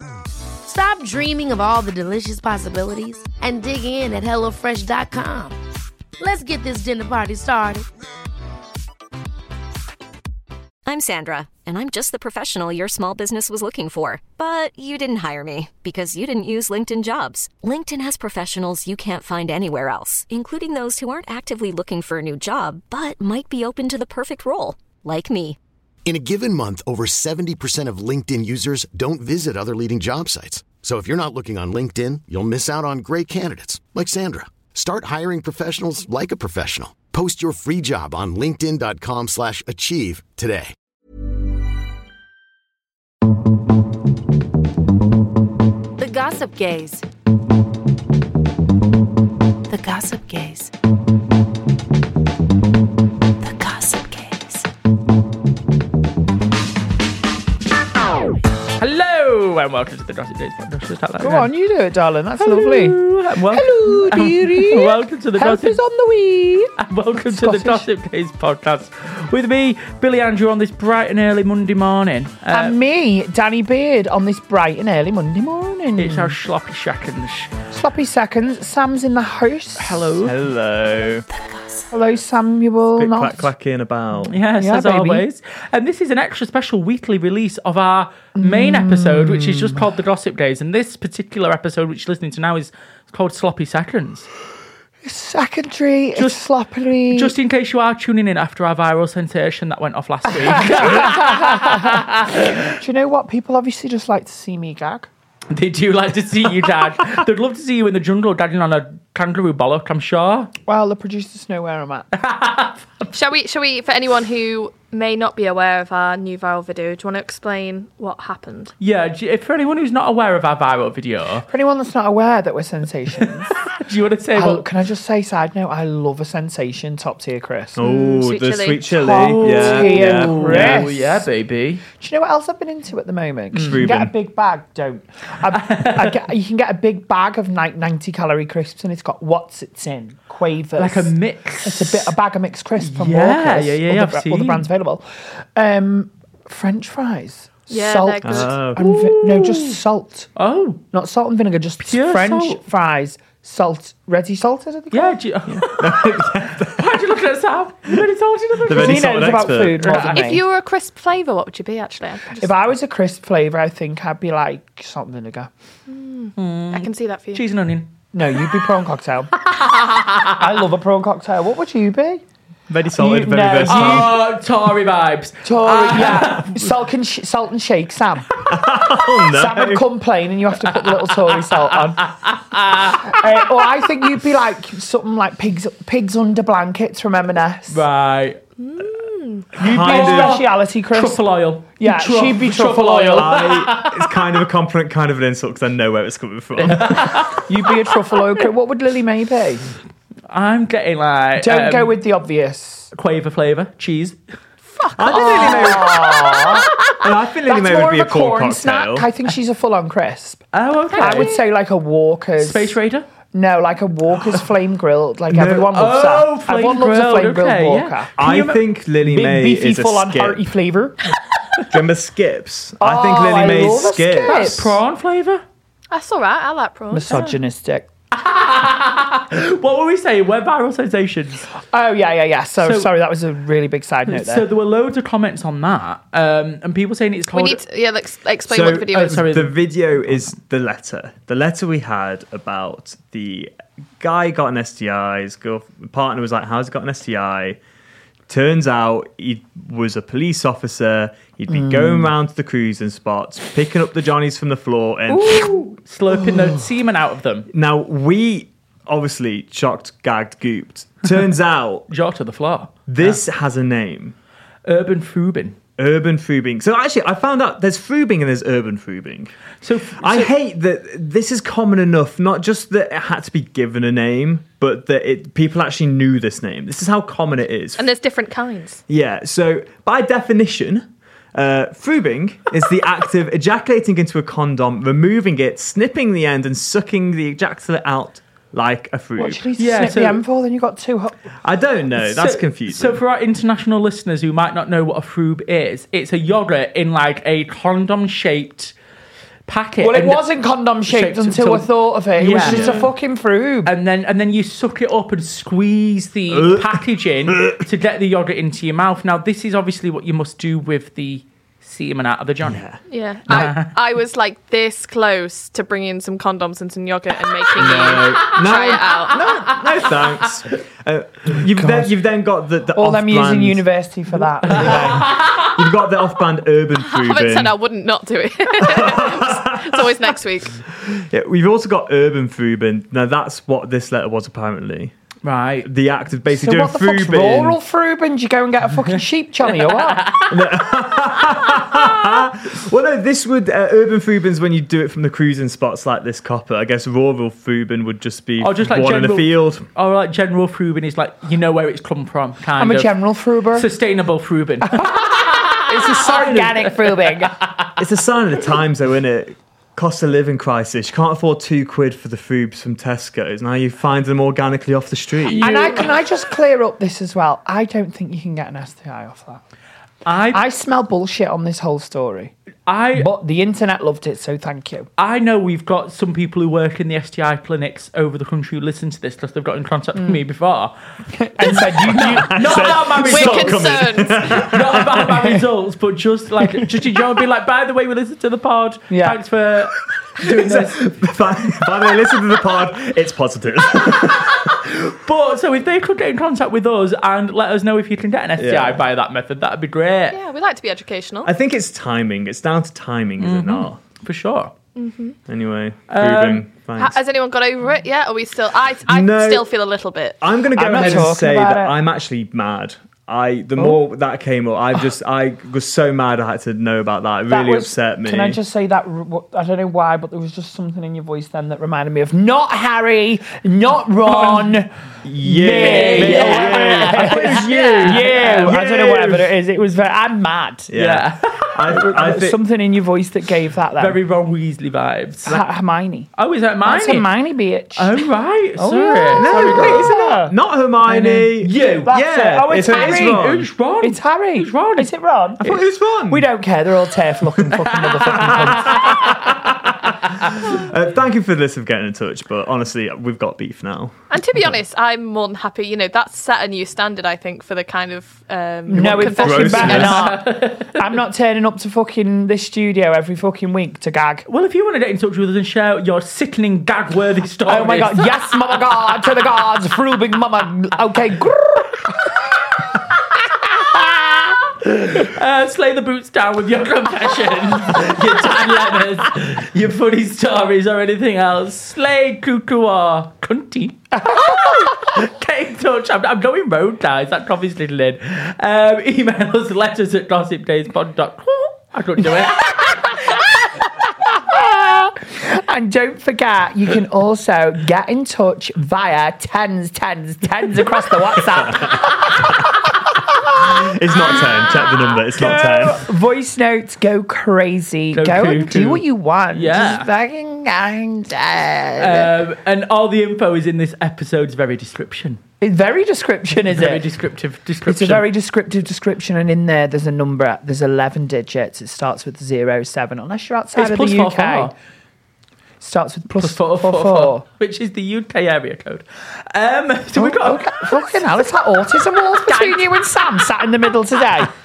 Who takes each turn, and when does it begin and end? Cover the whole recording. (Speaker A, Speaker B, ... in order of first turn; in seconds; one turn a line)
Speaker A: 0.6-5.6
Speaker A: 6.2-7.9
Speaker B: 10.9-25.6
Speaker C: 26.1-40.7
Speaker D: 46.0-47.0
Speaker D: 49.7-50.7
Speaker D: 53.4-54.7
Speaker E: 58.8-61.5
Speaker F: 61.2-67.9
Speaker E: 62.4-65.8
Speaker E: 66.8-72.8
Speaker F: 72.5-76.4
Speaker E: 76.0-77.5
Speaker F: 77.7-80.1
Speaker E: 79.8-80.3
Speaker G: 80.2-81.3
Speaker D: 81.3-81.9
Speaker F: 81.9-83.5
Speaker G: 83.0-84.4
Speaker E: 84.3-94.3
Speaker F: 84.6-85.3
Speaker F: 88.3-89.8
Speaker F: 95.0-97.3
Speaker E: 96.2-96.4
Speaker E: 97.1-102.7
Speaker F: 100.3-105.1
Speaker E: 105.5-110.5
Speaker F: 110.7-112.1
Speaker E: 112.2-113.1
Speaker H: 113.1-118.7
Speaker E: 118.8-121.5
Speaker F: 121.5-123.6
Speaker E: 123.7-124.7
Speaker F: 124.3-127.8
Speaker G: 127.8-130.9
Speaker H: 127.8-129.2
Speaker F: 128.9-131.2
Speaker E: 129.1-131.8
Speaker F: 132.0-150.3
Speaker E: 133.5-133.8
Speaker G: 133.6-134.1
Speaker E: 135.5-136.2
Speaker E: 140.8-142.1
Speaker E: 142.8-144.7
Speaker H: 147.7-148.5
Speaker G: 148.2-148.8
Speaker E: 148.8-149.8
Speaker E: 150.4-150.8
Speaker F: 150.9-155.2
Speaker E: 151.8-152.6
Speaker E: 154.9-160.3
Speaker G: 155.5-157.0
Speaker G: 158.6-160.0
Speaker F: 158.7-160.4
Speaker H: 160.1-162.5
Speaker F: 162.4-165.5
Speaker H: 165.9-167.4
Speaker E: 166.4-167.9
Speaker F: 168.1-169.3
Speaker E: 169.4-170.4
Speaker F: 170.2-172.2
Speaker G: 172.7-174.2
Speaker F: 172.9-174.2
Speaker E: 173.7-176.6
Speaker F: 175.4-178.5
Speaker G: 178.5-179.8
Speaker F: 179.3-182.2
Speaker E: 180.8-183.5
Speaker F: 182.7-187.8
Speaker E: 187.7-188.4
Speaker H: 188.6-189.5
Speaker F: 189.6-191.2
Speaker E: 189.6-194.2
Speaker G: 189.6-190.4
Speaker F: 191.8-193.4
Speaker G: 193.2-197.3
Speaker E: 196.6-197.4
Speaker F: 197.4-199.7
Speaker E: 200.3-201.9
Speaker F: 201.4-202.9
Speaker E: 202.9-204.2
Speaker H: 204.7-205.9
Speaker G: 205.0-206.0
Speaker F: 205.1-206.7
Speaker G: 206.9-209.1
Speaker F: 207.4-210.4
Speaker E: 210.5-211.3
Speaker H: 210.9-211.4
Speaker F: 211.0-212.8
Speaker E: 212.4-213.1
Speaker F: 213.3-218.1
Speaker E: 215.4-218.6
Speaker G: 218.2-220.5
Speaker F: 219.0-221.0
Speaker G: 221.7-224.7
Speaker F: 222.8-224.8
Speaker E: 224.2-225.4
Speaker H: 225.9-227.2
Speaker F: 226.9-227.9
Speaker E: 227.1-227.3
Speaker E: 228.1-231.5
Speaker F: 231.7-234.5
Speaker E: 232.6-232.9
Speaker E: 234.1-237.6
Speaker H: 237.3-239.2
Speaker G: 238.5-247.6
Speaker E: 238.9-240.3
Speaker G: 248.3-255.6
Speaker F: 251.5-252.1
Speaker E: 255.1-257.5
Speaker G: 257.5-261.9
Speaker E: 261.9-263.2
Speaker G: 262.9-264.1
Speaker E: 264.7-265.6
Speaker G: 265.8-269.3
Speaker E: 269.6-270.3
Speaker G: 270.0-277.9
Speaker H: 277.8-278.8
Speaker G: 278.9-289.4
Speaker F: 289.2-291.2
Speaker E: 289.6-290.2
Speaker G: 291.4-293.0
Speaker E: 292.0-298.7
Speaker E: 299.5-300.2
Speaker F: 299.8-303.7
Speaker E: 300.9-302.8
Speaker G: 302.4-302.9
Speaker E: 303.6-312.6
Speaker G: 306.3-307.6
Speaker G: 312.4-312.8
Speaker H: 312.9-319.5
Speaker E: 313.3-313.7
Speaker G: 317.6-323.6
Speaker E: 319.2-320.0
Speaker F: 321.5-321.9
Speaker F: 322.7-325.2
Speaker E: 324.4-325.5
Speaker G: 324.5-327.6
Speaker H: 326.8-330.6
Speaker G: 328.6-329.9
Speaker G: 330.9-334.9
Speaker E: 335.2-335.7
Speaker G: 335.6-337.6
Speaker F: 336.3-340.1
Speaker E: 340.0-340.3
Speaker G: 340.3-349.7
Speaker E: 348.4-352.9
Speaker F: 352.6-353.7
Speaker E: 353.5-356.9
Speaker F: 354.7-357.4
Speaker G: 357.8-365.6
Speaker E: 365.2-366.0
Speaker F: 365.4-369.4
Speaker E: 370.1-370.4
Speaker F: 370.3-372.3
Speaker E: 372.7-373.1
Speaker F: 372.9-374.9
Speaker E: 375.0-380.7
Speaker F: 379.9-380.2
Speaker F: 381.1-383.5
Speaker E: 381.9-390.9
Speaker G: 381.9-385.4
Speaker H: 383.0-384.3
Speaker F: 388.9-389.2
Speaker G: 390.2-394.6
Speaker E: 394.5-400.2
Speaker G: 398.4-398.8
Speaker H: 400.1-401.3
Speaker G: 401.3-403.8
Speaker E: 403.2-404.5
Speaker H: 404.8-405.2
Speaker G: 405.3-407.0
Speaker E: 405.9-406.5
Speaker H: 406.8-410.2
Speaker G: 408.9-409.5
Speaker G: 410.2-418.4
Speaker F: 410.5-411.8
Speaker E: 410.6-411.1
Speaker F: 417.3-424.7
Speaker E: 424.1-424.6
Speaker G: 425.0-429.3
Speaker F: 425.2-430.7
Speaker E: 425.4-428.5
Speaker G: 430.7-432.4
Speaker E: 430.7-432.1
Speaker F: 431.7-434.0
Speaker E: 433.8-435.4
Speaker F: 435.3-436.1
Speaker E: 436.1-437.1
Speaker F: 436.6-440.4
Speaker E: 437.8-439.9
Speaker G: 439.1-443.5
Speaker E: 440.9-442.0
Speaker F: 441.9-445.6
Speaker E: 442.5-445.6
Speaker G: 445.4-446.3
Speaker F: 446.1-449.3
Speaker E: 447.7-449.3
Speaker G: 448.1-449.8
Speaker G: 450.3-454.1
Speaker H: 454.1-460.0
Speaker F: 458.7-464.3
Speaker G: 458.8-460.0
Speaker E: 459.6-460.8
Speaker E: 464.3-468.1
Speaker F: 467.4-472.3
Speaker F: 473.3-474.5
Speaker E: 474.8-492.9
Speaker F: 484.0-484.7
Speaker F: 492.2-503.6
Speaker G: 503.4-505.8
Speaker F: 505.1-512.1
Speaker E: 507.9-509.9
Speaker E: 511.8-515.2
Speaker F: 515.4-516.9
Speaker E: 516.5-518.1
Speaker F: 517.6-524.5
Speaker E: 523.5-524.5
Speaker F: 525.6-527.2
Speaker E: 526.2-531.0
Speaker F: 530.0-534.3